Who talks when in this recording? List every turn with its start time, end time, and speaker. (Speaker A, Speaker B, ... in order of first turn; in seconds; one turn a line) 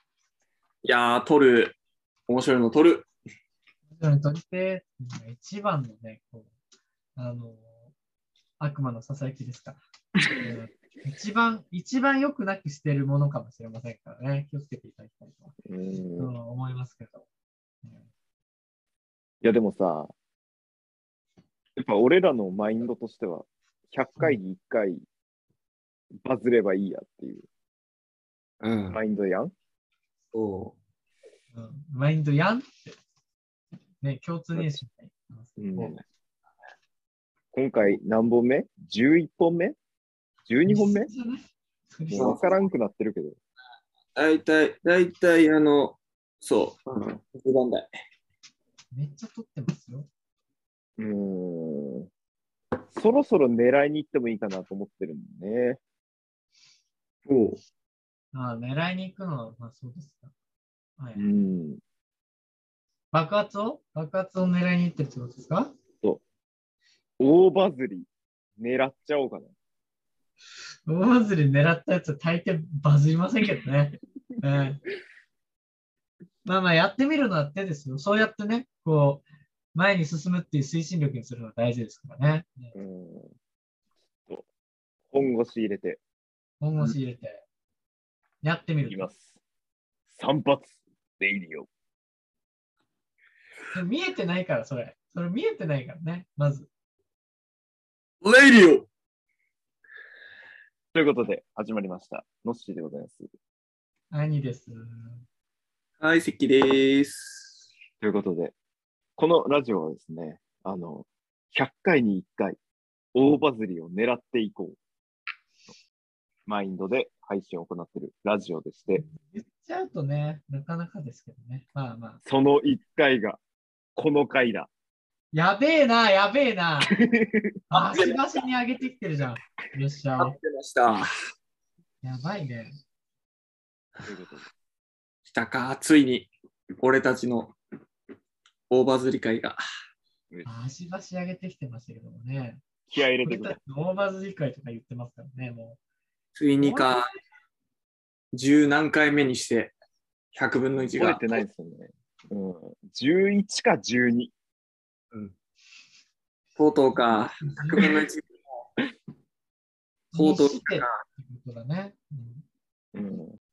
Speaker A: 0.8-1.8
Speaker A: 2.3-3.1
Speaker B: 3.9-6.5
Speaker B: 7.2-7.9
Speaker B: 8.6-9.8
Speaker B: 10.4-15.5
Speaker C: 15.7-16.3
Speaker B: 16.2-17.2
Speaker C: 19.4-20.1
Speaker C: 21.8-25.1
Speaker C: 26.2-27.5
Speaker A: 28.6-29.0
Speaker C: 28.9-29.5
Speaker A: 30.3-30.8
Speaker B: 31.5-33.0
Speaker B: 34.0-36.0
Speaker C: 35.6-36.0
Speaker C: 37.5-39.8
Speaker C: 40.5-41.1
Speaker B: 40.7-42.5
Speaker C: 42.1-43.4
Speaker A: 42.1-42.4
Speaker A: 44.1-47.9
Speaker B: 48.9-50.1
Speaker C: 51.0-52.1
Speaker C: 52.9-55.8
Speaker A: 57.3-57.6
Speaker B: 58.3-60.3
Speaker C: 61.2-61.8
Speaker B: 63.1-65.7
Speaker C: 67.2-69.5
Speaker B: 70.9-74.8
Speaker B: 76.5-82.7
Speaker C: 82.7-83.3
Speaker C: 85.1-86.0
Speaker B: 86.6-87.4
Speaker B: 88.4-89.1
Speaker C: 88.9-89.4
Speaker C: 90.1-91.7
Speaker B: 93.7-96.7
Speaker A: 98.2-98.9
Speaker C: 100.9-103.3
Speaker B: 104.1-105.2
Speaker A: 106.0-107.7
Speaker C: 108.0-108.5
Speaker C: 109.2-112.6
Speaker C: 113.2-114.8
Speaker C: 116.5-119.0
Speaker B: 119.0-122.2
Speaker C: 122.2-123.4
Speaker C: 124.0-124.7
Speaker B: 125.3-127.0
Speaker C: 127.0-127.5
Speaker A: 127.7-128.2
Speaker B: 127.7-130.3
Speaker A: 130.2-131.1
Speaker B: 132.0-132.7
Speaker C: 134.0-134.5
Speaker A: 135.3-136.3
Speaker A: 136.8-137.6
Speaker A: 138.7-139.6
Speaker B: 140.5-142.6
Speaker C: 142.9-143.6
Speaker B: 143.2-145.8
Speaker A: 146.4-147.1
Speaker B: 146.6-147.0
Speaker A: 148.3-149.7
Speaker A: 150.3-151.4
Speaker C: 150.9-154.3
Speaker A: 156.6-158.3
Speaker B: 157.0-158.0
Speaker B: 160.1-162.4
Speaker A: 160.1-161.0
Speaker C: 162.9-163.3